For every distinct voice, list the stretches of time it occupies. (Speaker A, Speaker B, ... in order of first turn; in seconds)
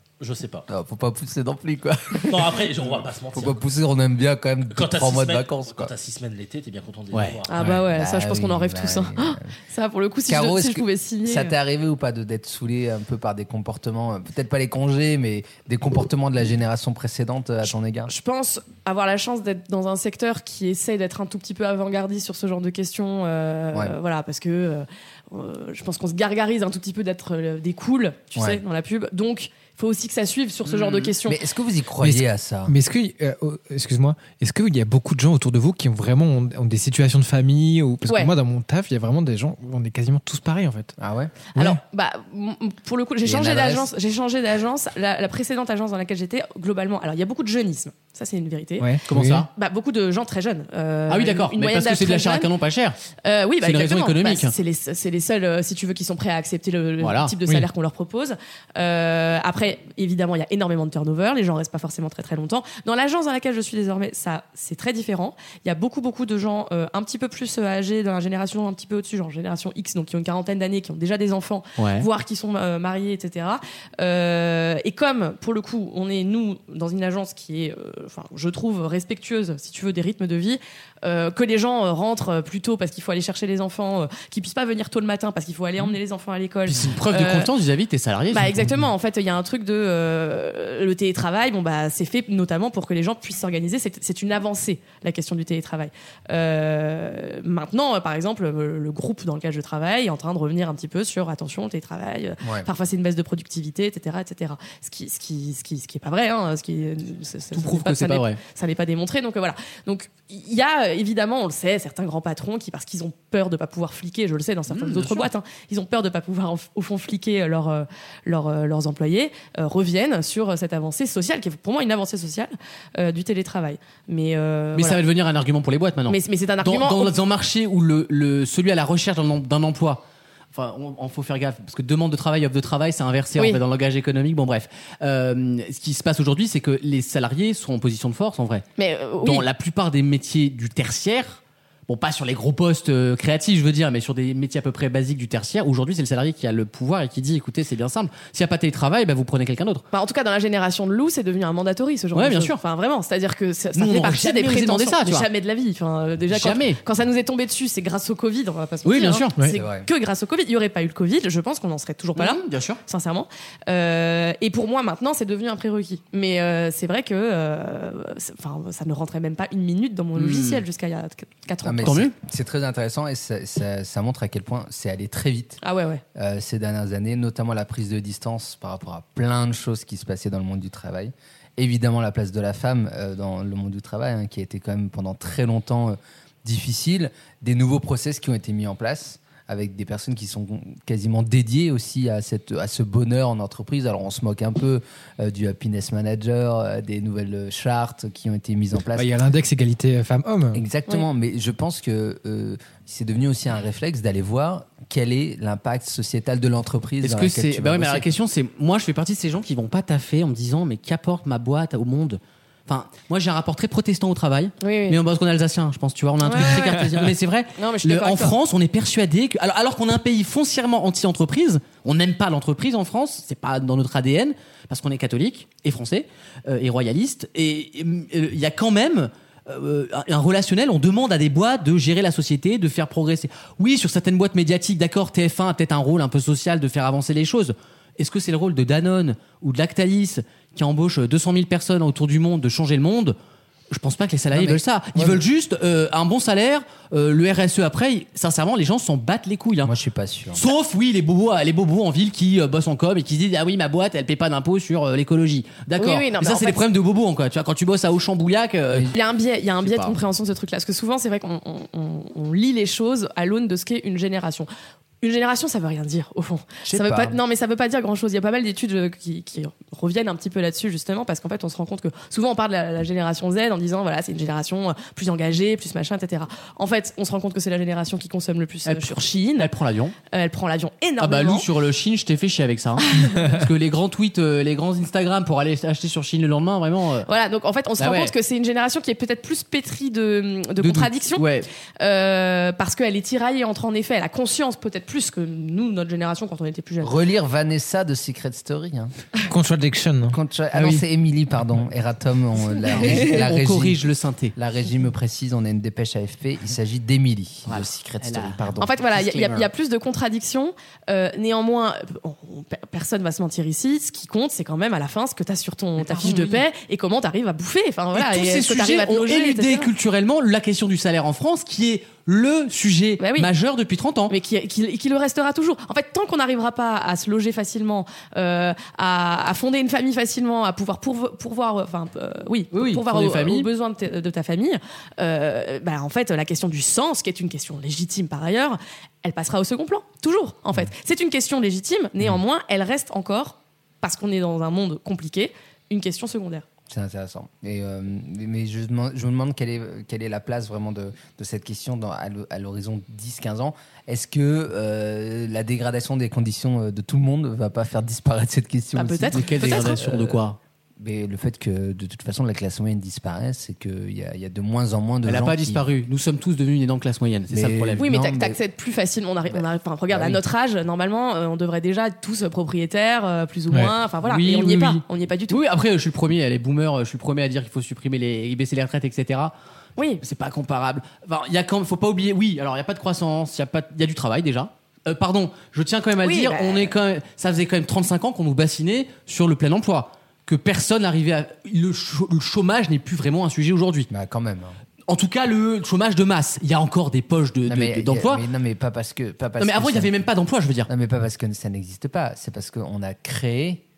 Speaker A: 0.2-0.7, 2.2-3.6, 4.7-7.7
Speaker B: 0.7-5.9, 7.6-9.5, 10.3-18.1, 28.4-28.6, 31.2-32.8, 41.0-41.4, 43.2-43.9, 102.4-102.7, 159.5-159.9, 171.6-175.6, 176.2-199.1, 200.5-208.1, 244.3-245.2, 249.6-250.5, 266.6-267.2, 296.8-298.9, 300.1-303.8, 304.4-308.7, 346.7-360.2, 360.8-365.6, 367.3-368.4, 393.9-394.6, 397.5-400.1, 400.7-403.6
Speaker C: 7.1-7.4, 30.7-31.1, 49.1-49.5, 51.1-53.0, 53.6-54.5, 57.0-57.4, 71.8-72.1, 86.7-88.8, 107.5-108.4, 114.7-115.3, 124.8-138.7, 139.2-149.8, 152.1-152.6, 153.8-155.3, 156.3-156.8, 158.8-159.6, 162.2-162.8, 170.2-170.6, 171.8-172.1, 207.0-243.2, 243.7-249.7, 250.3-259.0, 259.6-259.9, 278.6-279.9, 281.0-287.1, 287.8-288.1, 290.6-291.5, 302.7-304.3, 307.5-309.5, 315.8-316.4, 317.9-324.1, 332.5-333.5, 359.1-360.4, 365.1-367.8, 374.0-379.3, 380.0-393.9, 394.9-398.2, 399.4-400.7
Speaker D: 7.5-11.6, 18.1-31.4, 38.1-38.3, 41.5-49.0, 49.5-52.5, 53.2-87.5, 88.3-125.0, 126.1-127.1, 133.4-133.6, 138.8-139.5, 149.9-172.0, 175.6-176.0, 214.6-215.0, 216.2-216.9, 217.6-218.3, 255.8-256.6, 258.9-264.5, 265.0-279.5, 280.1-281.5, 282.9-283.2, 287.1-291.2, 291.8-296.9, 308.6-319.7, 323.0-323.3, 324.1-346.4, 358.8-359.9, 367.8-375.4, 379.8-380.0, 386.0-386.7
Speaker E: 32.0-41.0, 41.6-41.8, 48.8-49.5, 199.0-200.6, 299.3-300.2